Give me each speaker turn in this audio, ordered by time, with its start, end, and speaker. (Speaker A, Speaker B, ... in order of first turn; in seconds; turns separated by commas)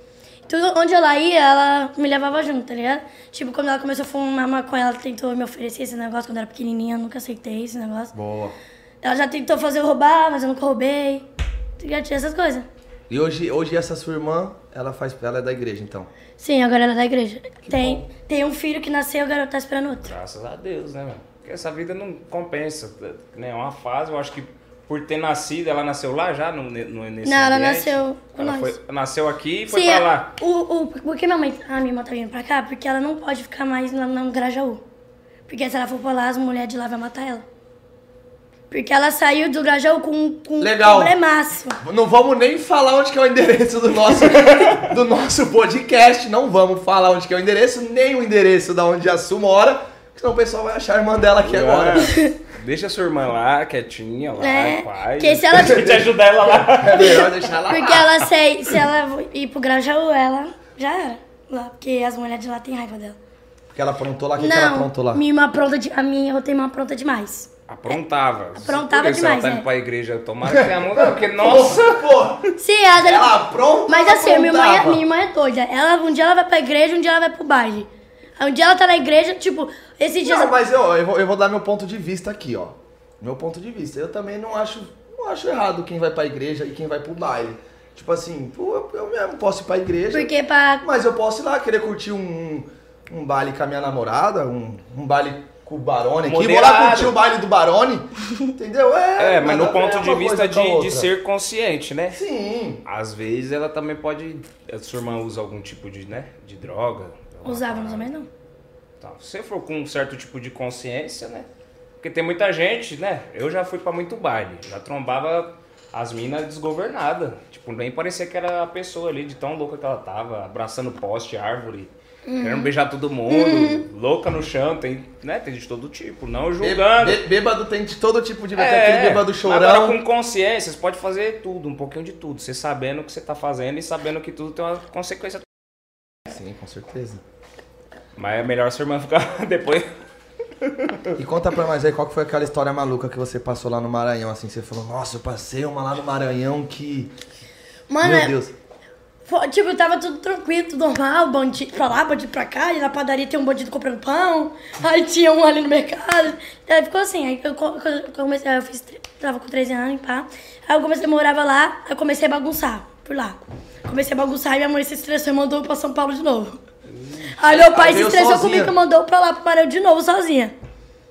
Speaker A: 0.5-8.1, Speaker B: 8.1-8.6, Speaker A: 9.0-11.3, Speaker A: 11.8-12.7, Speaker B: 13.1-16.1, Speaker A: 16.4-20.1, Speaker B: 17.6-18.1, Speaker C: 20.0-30.3, Speaker A: 27.2-28.8, Speaker A: 29.7-34.8, Speaker A: 35.5-37.4, Speaker A: 38.7-41.8, Speaker B: 40.6-41.1, Speaker B: 41.8-52.1, Speaker C: 44.4-44.9, Speaker C: 51.4-57.4, Speaker A: 52.0-52.4, Speaker A: 54.4-56.0, Speaker B: 55.6-58.2, Speaker A: 57.0-63.2, Speaker B: 63.7-65.2, Speaker A: 64.4-68.0, Speaker C: 67.7-72.3, Speaker A: 68.5-69.6, Speaker B: 70.5-75.0, Speaker A: 72.5-80.5, Speaker B: 80.2-90.3, Speaker A: 90.1-90.8, Speaker B: 90.8-101.1, Speaker C: 96.2-97.2, Speaker C: 99.2-102.2, Speaker B: 102.1-102.8, Speaker C: 102.8-108.1, Speaker A: 107.4-108.3, Speaker C: 109.0-111.5, Speaker C: 112.0-127.2, Speaker A: 122.2-122.7, Speaker A: 123.3-123.8, Speaker B: 126.6-130.0, Speaker C: 128.5-135.4, Speaker B: 136.2-137.2, Speaker C: 138.2-139.9, Speaker C: 140.6-141.1, Speaker B: 141.2-147.1, Speaker A: 147.9-148.3, Speaker B: 148.0-148.5, Speaker A: 149.2-166.6, Speaker C: 166.9-167.3, Speaker A: 167.3-170.5, Speaker B: 167.4-168.7